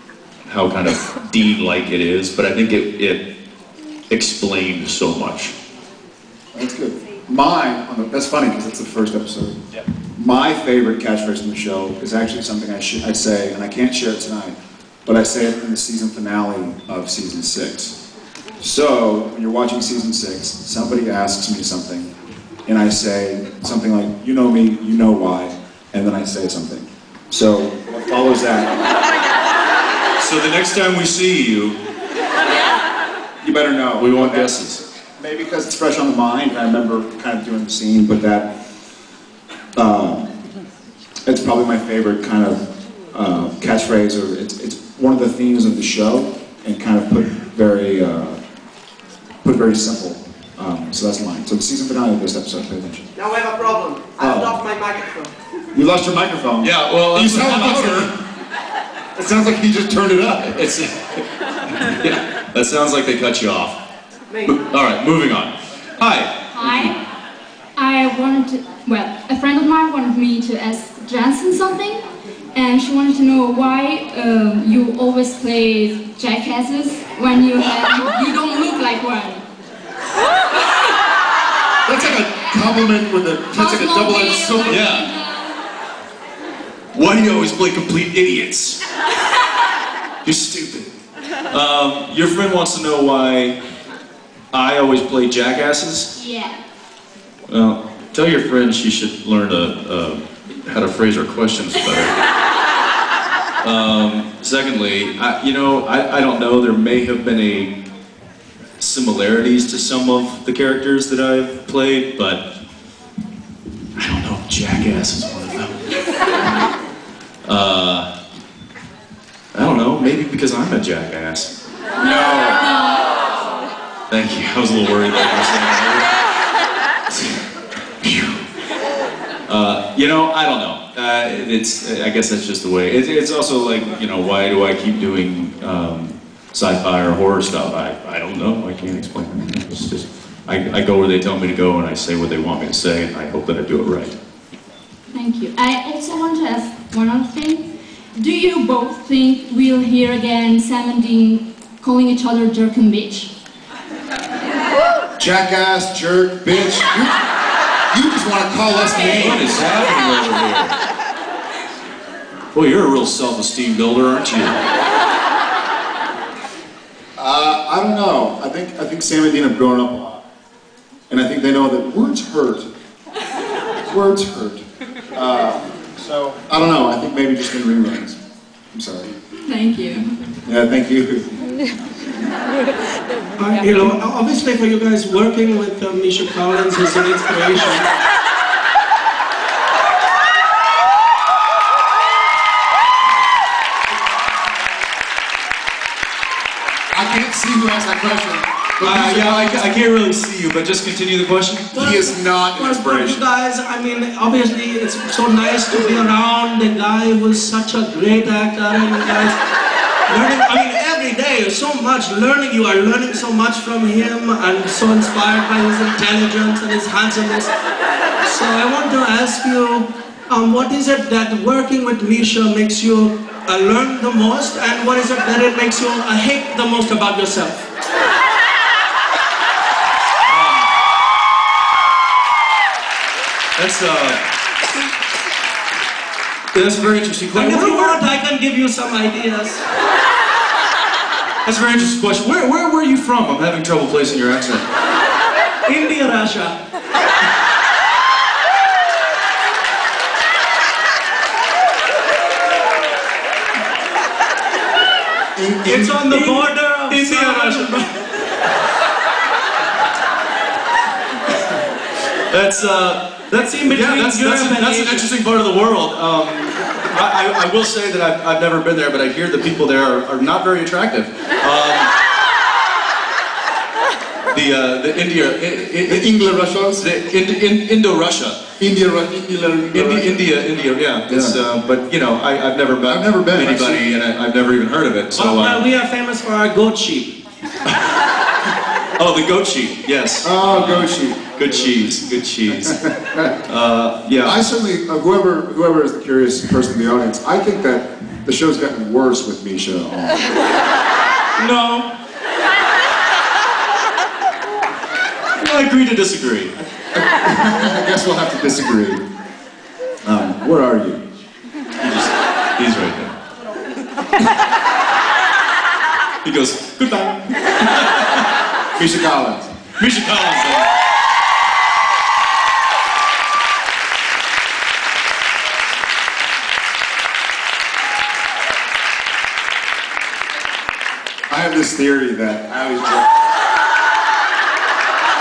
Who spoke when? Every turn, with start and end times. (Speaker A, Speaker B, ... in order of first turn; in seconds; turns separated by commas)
Speaker A: 0.4-3.2, Speaker A: 4.1-5.5, Speaker B: 6.5-9.6, Speaker B: 10.1-18.0, Speaker B: 18.6-22.1, Speaker B: 22.6-28.7, Speaker A: 30.2-31.8, Speaker B: 33.4-34.5, Speaker A: 34.0-34.8, Speaker B: 35.2-38.5, Speaker B: 39.7-40.3, Speaker B: 41.2-48.4, Speaker B: 49.4-53.1, Speaker C: 53.1-55.3, Speaker B: 54.2-54.6, Speaker B: 55.7-58.1, Speaker A: 56.6-58.1, Speaker B: 59.1-60.8, Speaker A: 60.5-63.8, Speaker C: 64.3-64.6, Speaker A: 64.5-66.9, Speaker D: 66.5-67.0, Speaker D: 67.8-72.0, Speaker D: 72.5-79.4, Speaker B: 81.8-84.9, Speaker D: 83.5-85.6, Speaker A: 84.7-85.1, Speaker A: 86.9-88.8, Speaker A: 90.2-90.9, Speaker A: 91.5-93.6, Speaker A: 94.5-96.1, Speaker D: 96.2-96.6, Speaker A: 97.5-102.1, Speaker A: 103.6-107.7, Speaker A: 108.8-112.5, Speaker A: 114.0-115.9, Speaker A: 117.4-118.1, Speaker A: 119.5-121.5, Speaker B: 122.0-122.7, Speaker D: 122.0-123.2, Speaker A: 124.1-126.1, Speaker A: 127.1-127.4, Speaker A: 128.0-128.4, Speaker A: 129.5-144.2, Speaker D: 145.1-153.3, Speaker B: 155.2-157.1, Speaker B: 157.9-159.6, Speaker A: 158.9-160.8, Speaker A: 162.5-164.6, Speaker B: 167.2-170.2, Speaker B: 171.1-172.7, Speaker B: 173.8-178.2, Speaker B: 178.7-179.1, Speaker D: 179.5-180.3, Speaker B: 180.4-181.5, Speaker E: 183.4-187.4, Speaker C: 183.7-184.4, Speaker C: 186.4-187.8, Speaker B: 196.9-199.7, Speaker A: 198.8-201.7, Speaker B: 201.7-203.2, Speaker E: 201.7-209.3, Speaker E: 210.1-217.5, Speaker E: 218.3-227.7, Speaker A: 230.2-230.7, Speaker A: 233.6-234.2, Speaker A: 236.5-238.0, Speaker E: 237.3-239.6, Speaker A: 241.4-244.6, Speaker E: 245.7-246.6, Speaker B: 255.3-256.2, Speaker E: 255.6-257.9, Speaker A: 256.9-257.7, Speaker A: 262.3-271.9, Speaker E: 263.3-265.1, Speaker A: 274.3-276.1, Speaker B: 275.8-276.8, Speaker A: 276.8-278.4, Speaker B: 278.6-280.3, Speaker A: 279.7-285.6, Speaker B: 281.1-281.4, Speaker B: 282.9-283.8, Speaker E: 285.1-287.1, Speaker A: 289.0-292.8, Speaker B: 290.2-293.3, Speaker A: 293.4-294.4, Speaker B: 294.2-300.4, Speaker A: 301.4-301.9, Speaker A: 305.4-306.5, Speaker B: 306.8-309.0, Speaker B: 310.0-311.0, Speaker A: 311.8-313.1, Speaker A: 316.2-318.3, Speaker B: 318.8-319.5, Speaker A: 319.8-320.7, Speaker B: 331.3-333.1